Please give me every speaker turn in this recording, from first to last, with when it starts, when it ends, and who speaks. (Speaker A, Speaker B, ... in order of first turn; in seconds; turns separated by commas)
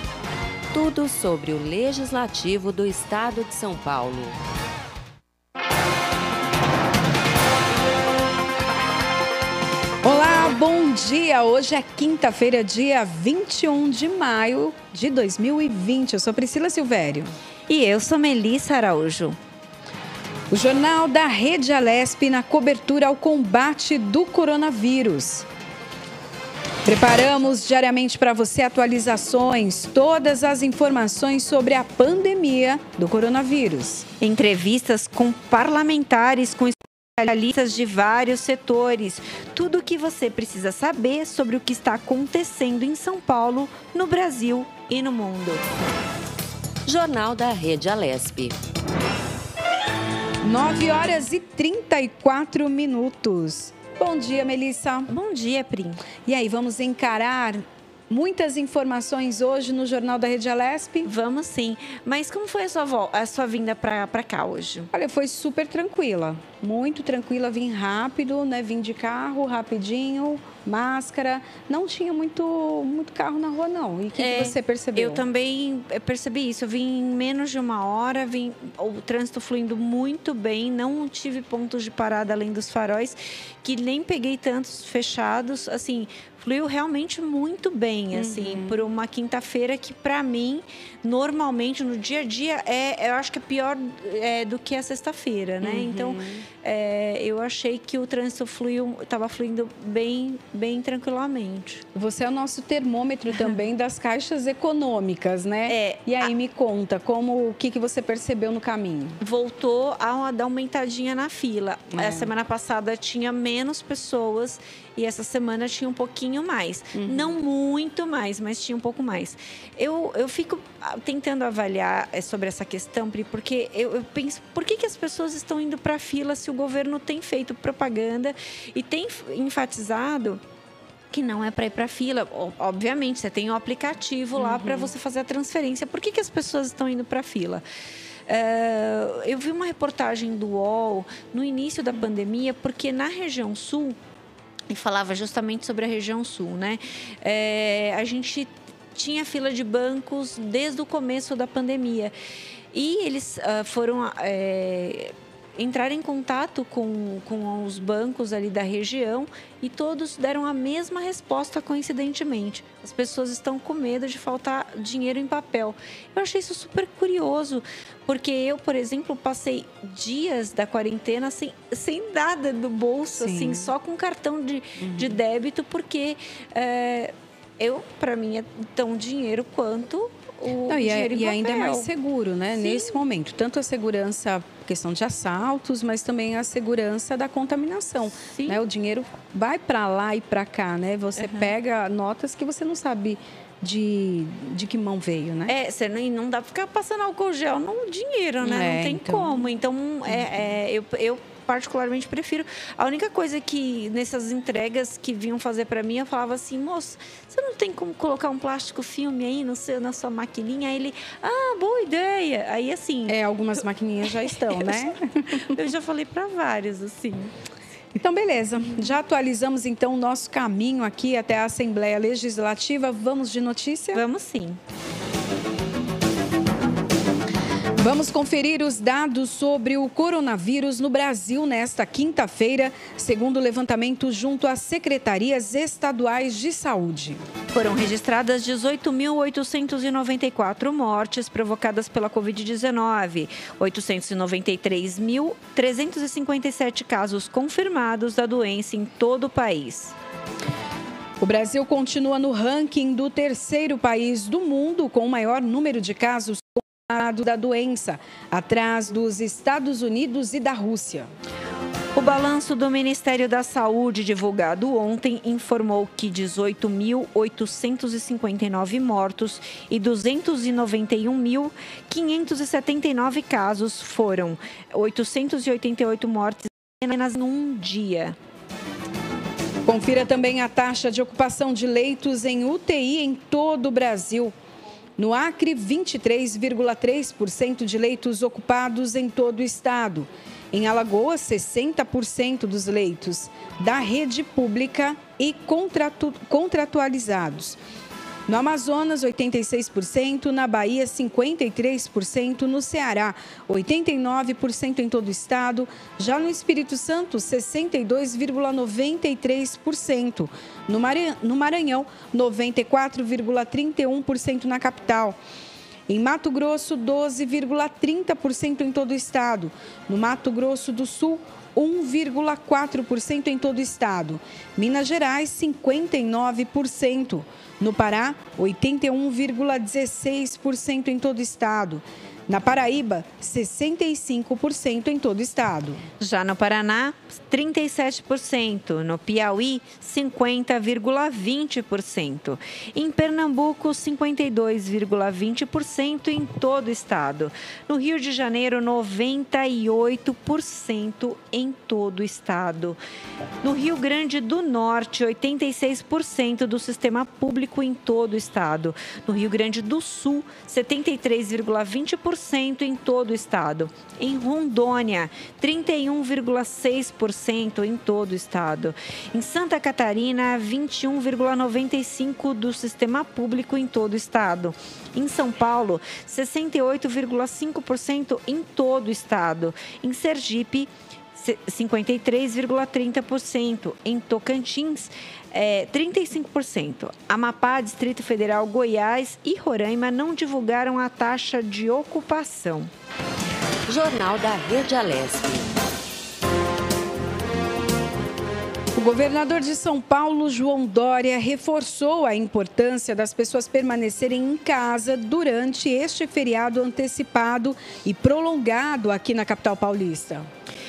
Speaker A: 0.7-4.4, Speaker B: 10.0-17.3, Speaker C: 17.7-19.4, Speaker B: 20.5-25.5, Speaker B: 26.9-34.1, Speaker C: 34.2-45.6, Speaker A: 46.9-48.6, Speaker B: 50.4-55.1, Speaker C: 55.1-56.0, Speaker B: 56.2-61.1, Speaker C: 61.0-64.9, Speaker B: 64.9-75.2, Speaker C: 74.2-101.8, Speaker B: 88.1-88.8, Speaker B: 95.6-96.4, Speaker B: 101.9-109.2, Speaker C: 105.7-106.3, Speaker C: 109.2-130.4, Speaker B: 111.9-112.3, Speaker B: 116.9-117.3, Speaker C: 131.1-137.6, Speaker B: 134.4-134.9, Speaker C: 138.3-144.0, Speaker C: 144.7-152.1, Speaker C: 152.7-181.9, Speaker B: 173.2-173.7, Speaker B: 174.8-175.2, Speaker B: 180.7-195.5, Speaker C: 182.6-183.0, Speaker C: 188.3-188.6, Speaker C: 191.2-191.5, Speaker C: 195.5-213.2, Speaker B: 198.4-199.3, Speaker B: 213.1-215.6, Speaker C: 214.5-214.8, Speaker C: 215.4-217.3, Speaker B: 218.0-224.0, Speaker C: 223.9-224.6, Speaker B: 227.8-237.2, Speaker C: 237.5-249.9, Speaker B: 251.2-261.1, Speaker C: 261.9-278.2, Speaker B: 279.6-284.3, Speaker B: 285.0-297.6, Speaker B: 298.3-315.2, Speaker B: 315.9-335.8, Speaker C: 336.0-352.8, Speaker C: 353.4-392.7, Speaker A: 393.7-395.5, Speaker B: 398.8-410.3